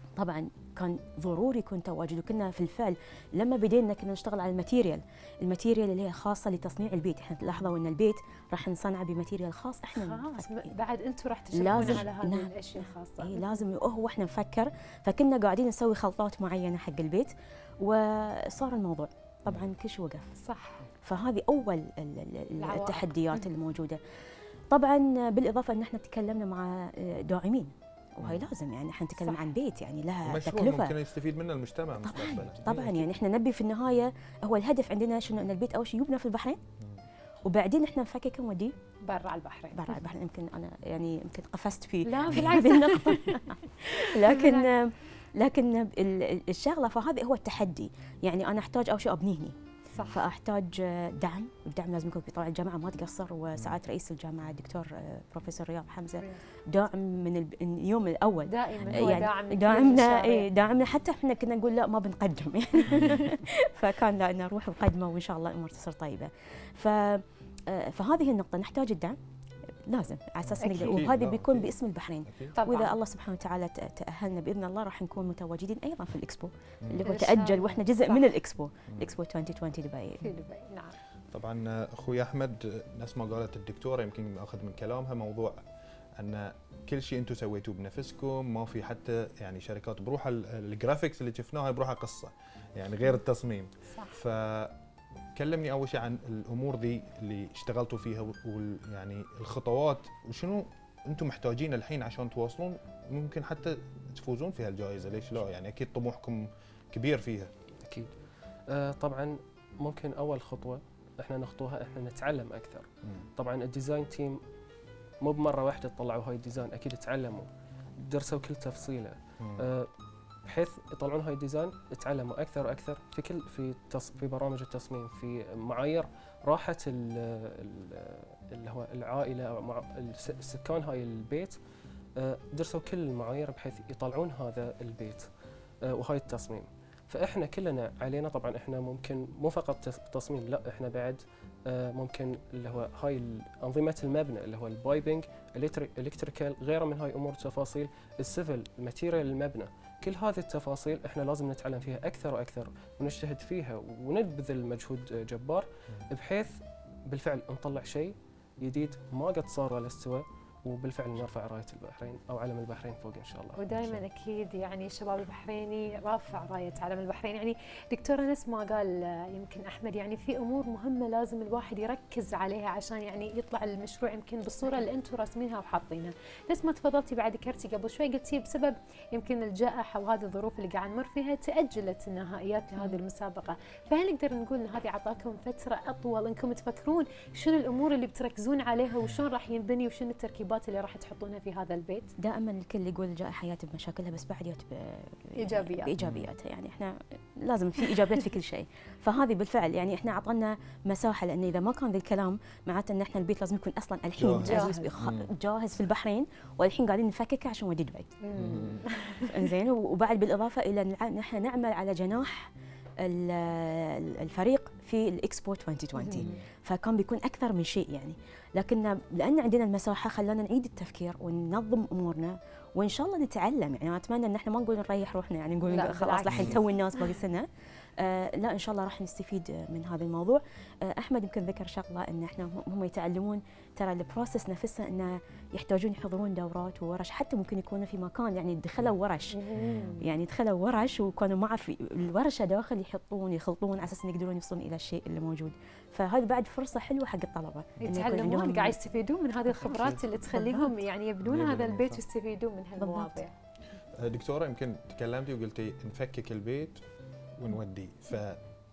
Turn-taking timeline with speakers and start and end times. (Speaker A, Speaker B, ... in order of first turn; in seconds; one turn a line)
Speaker A: 0.2-10.7
Speaker B: 9.9-13.6
Speaker A: 11.5-20.3
Speaker C: 11.7-12.0
Speaker B: 20.4-20.8
Speaker A: 21.0-24.0
Speaker B: 22.6-23.4
Speaker A: 24.7-31.0
Speaker C: 28.2-28.5
Speaker B: 29.2-29.5
Speaker C: 30.3-33.1
Speaker A: 32.0-36.6
Speaker A: 37.5-38.7
Speaker B: 39.0-40.0
Speaker A: 39.7-49.5
Speaker B: 42.1-44.7
Speaker B: 49.9-50.3
Speaker A: 50.1-69.2
Speaker B: 58.5-60.5
Speaker C: 58.9-59.2
Speaker C: 62.9-63.2
Speaker A: 69.9-80.3
Speaker C: 70.4-71.8
Speaker B: 70.6-71.1
Speaker C: 72.3-72.5
Speaker B: 72.6-72.9
Speaker C: 76.8-77.2
Speaker B: 77.1-78.3
Speaker C: 78.9-79.2
Speaker B: 80.2-81.0
Speaker C: 81.3-85.6
Speaker C: 86.2-94.8
Speaker B: 93.9-94.2
Speaker C: 95.4-107.5
Speaker D: 107.8-108.2
Speaker D: 108.7-114.4
Speaker D: 115.2-119.9
Speaker C: 119.4-119.7
Speaker D: 120.5-131.6
Speaker D: 132.2-135.3
Speaker D: 135.9-156.6
Speaker D: 157.1-163.8
Speaker B: 163.6-192.1
Speaker A: 192.2-208.2
Speaker B: 195.4-195.9
Speaker C: 196.0-196.3
Speaker C: 204.2-205.3
Speaker B: 204.4-204.9
Speaker B: 208.2-209.5
Speaker C: 208.3-208.8
Speaker A: 209.3-212.5
Speaker A: 213.0-227.5
Speaker B: 216.0-216.4
Speaker B: 225.7-227.2
Speaker A: 228.0-239.5
Speaker B: 239.3-240.0
Speaker C: 239.6-239.9
Speaker A: 240.0-248.8
Speaker B: 247.8-253.3
Speaker A: 249.5-250.8
Speaker C: 251.2-252.0
Speaker A: 252.8-253.2
Speaker C: 254.0-256.8
Speaker C: 257.4-258.4